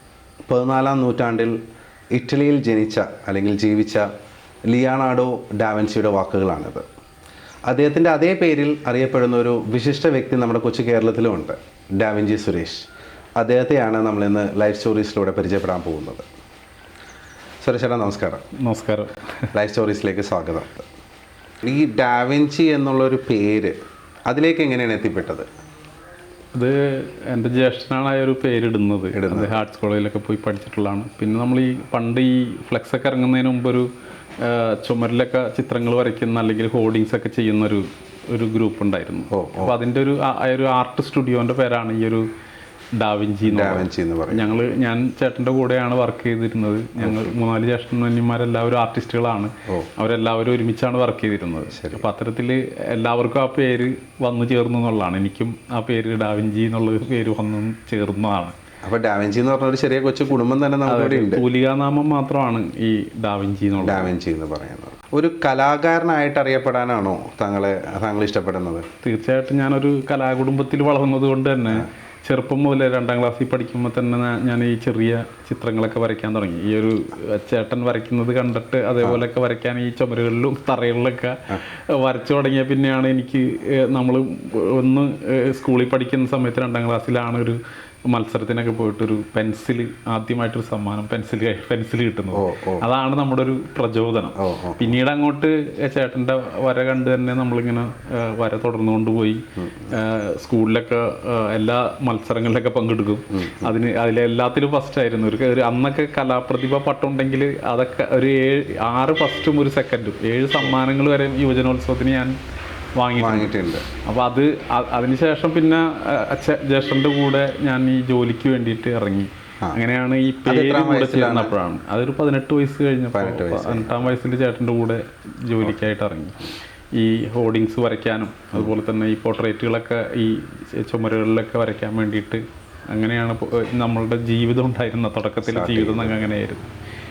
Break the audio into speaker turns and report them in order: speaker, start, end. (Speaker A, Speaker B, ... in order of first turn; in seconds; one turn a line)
Speaker A: 0.5-1.6
Speaker A: 2.1-4.1
Speaker A: 4.7-6.9
Speaker A: 7.7-16.2
Speaker A: 17.6-18.4
Speaker B: 18.6-19.2
Speaker A: 19.5-20.9
Speaker A: 21.6-23.8
Speaker A: 24.3-25.5
Speaker B: 26.5-33.9
Speaker A: 29.1-29.6
Speaker B: 34.4-42.3
Speaker A: 39.3-39.8
Speaker B: 42.9-58.5
Speaker A: 43.4-44.6
Speaker A: 47.0-47.3
Speaker A: 51.8-52.0
Speaker A: 58.8-61.4
Speaker B: 60.9-64.1
Speaker A: 63.8-68.9
Speaker B: 69.0-112.3
Speaker A: 92.3-92.8
Speaker A: 94.4-95.0
Speaker B: 113.0-136.7
Speaker A: 113.2-113.8
Speaker A: 120.4-121.5
Speaker A: 123.1-124.1
Speaker A: 135.4-136.3